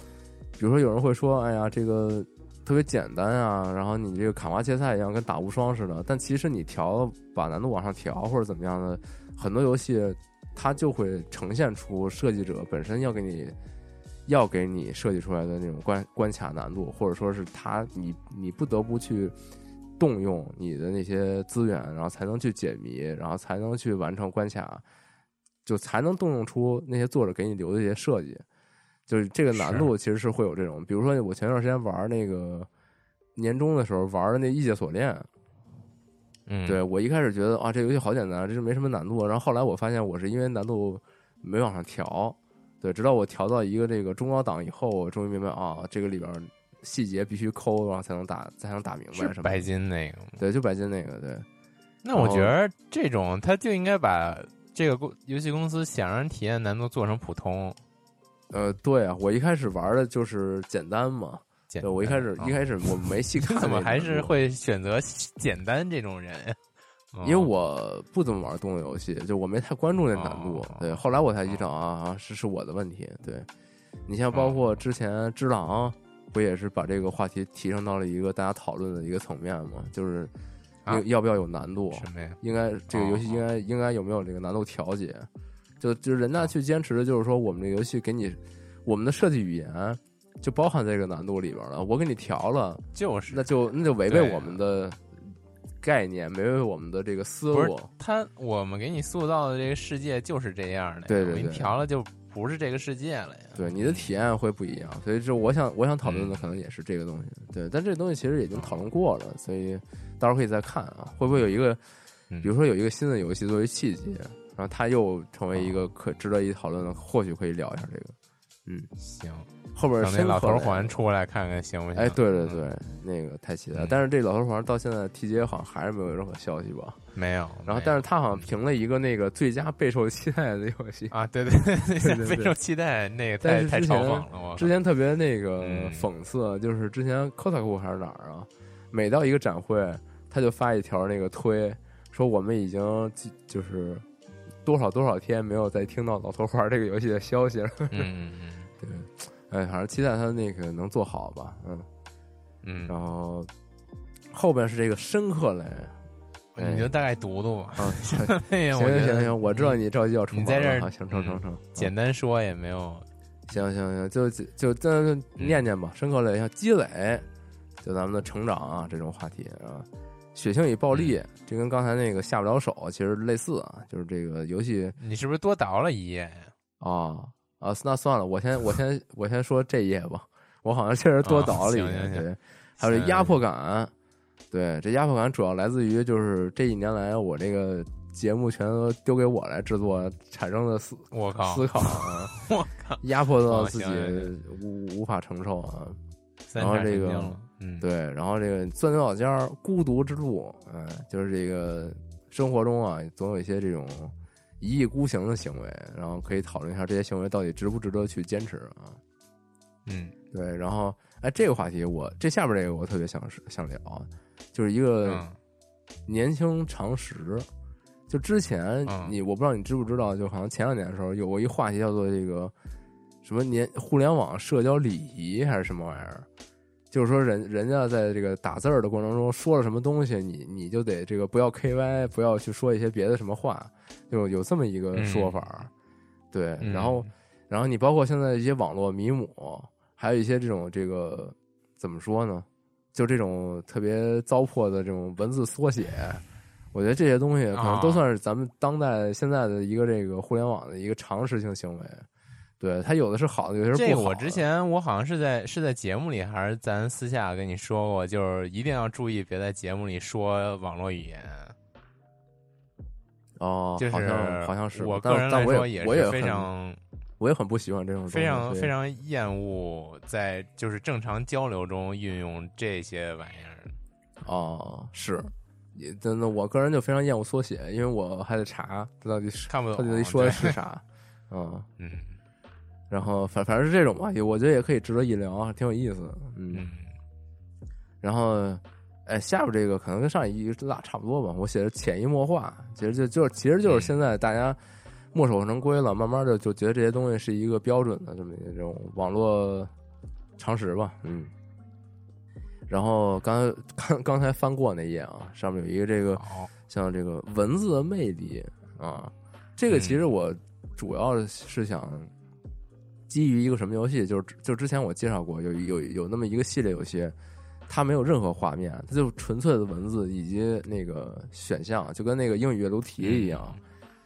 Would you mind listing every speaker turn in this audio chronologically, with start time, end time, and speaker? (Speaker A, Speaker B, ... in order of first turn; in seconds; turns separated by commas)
Speaker A: 0.6-13.5, Speaker A: 14.3-19.3, Speaker A: 20.0-24.8, Speaker A: 25.6-28.4, Speaker A: 29.1-32.7, Speaker B: 29.5-29.9, Speaker A: 33.4-35.3, Speaker B: 36.5-36.8, Speaker A: 36.6-49.6, Speaker B: 49.1-50.4, Speaker A: 50.4-51.5, Speaker B: 52.0-57.8, Speaker A: 52.1-52.5, Speaker A: 58.5-64.3, Speaker B: 61.7-66.6, Speaker B: 67.1-67.5, Speaker A: 67.2-73.5, Speaker B: 70.1-71.6, Speaker A: 74.1-80.3, Speaker B: 74.3-74.6, Speaker A: 80.9-85.3, Speaker B: 81.9-82.4, Speaker B: 82.9-83.4, Speaker A: 85.8-95.0, Speaker B: 92.9-93.5, Speaker B: 94.0-94.6, Speaker A: 95.8-97.9, Speaker B: 97.5-104.1, Speaker A: 101.1-101.8, Speaker A: 103.5-111.8, Speaker B: 106.0-106.4, Speaker B: 108.5-108.8, Speaker A: 112.4-118.1, Speaker B: 115.5-115.8, Speaker B: 119.0-119.5, Speaker A: 119.7-121.0, Speaker B: 120.0-122.6, Speaker A: 121.9-127.0, Speaker B: 127.1-128.4, Speaker A: 127.7-131.1, Speaker B: 131.1-134.8, Speaker A: 132.0-132.5, Speaker A: 133.4-144.0, Speaker B: 135.6-136.1, Speaker A: 144.6-148.1, Speaker B: 147.9-148.7, Speaker A: 148.8-151.8, Speaker B: 152.6-152.9, Speaker A: 152.9-153.5, Speaker A: 154.3-155.9, Speaker B: 156.5-159.8, Speaker A: 156.6-156.9, Speaker A: 157.8-161.9, Speaker B: 160.3-163.1, Speaker A: 163.5-167.2, Speaker A: 167.8-175.0, Speaker B: 175.0-176.5, Speaker A: 176.8-183.9, Speaker B: 181.2-182.3, Speaker B: 182.8-183.4, Speaker A: 184.5-192.3, Speaker B: 191.1-194.3, Speaker A: 193.0-196.0, Speaker B: 196.5-197.8, Speaker A: 196.6-209.0, Speaker B: 209.8-210.1, Speaker A: 210.3-215.2, Speaker B: 215.0-215.4, Speaker A: 216.1-217.5, Speaker A: 218.1-222.5, Speaker B: 218.9-219.1, Speaker A: 223.2-226.2, Speaker A: 226.9-235.7, Speaker B: 234.9-235.4, Speaker A: 236.3-252.1, Speaker B: 236.6-237.1, Speaker B: 247.5-248.0, Speaker A: 252.6-254.4, Speaker B: 253.7-261.5, Speaker A: 263.4-266.5, Speaker B: 263.8-266.8, Speaker A: 267.2-268.7, Speaker B: 268.1-273.8, Speaker A: 274.2-281.7, Speaker B: 279.5-280.6, Speaker B: 281.8-282.1, Speaker A: 282.9-286.6, Speaker B: 286.5-286.9, Speaker A: 288.0-294.6, Speaker B: 293.6-293.9, Speaker A: 295.1-299.7, Speaker A: 300.4-301.3, Speaker A: 302.7-312.1, Speaker B: 306.2-306.5, Speaker B: 309.7-310.0, Speaker A: 313.1-317.1, Speaker A: 317.7-323.6, Speaker B: 323.0-323.6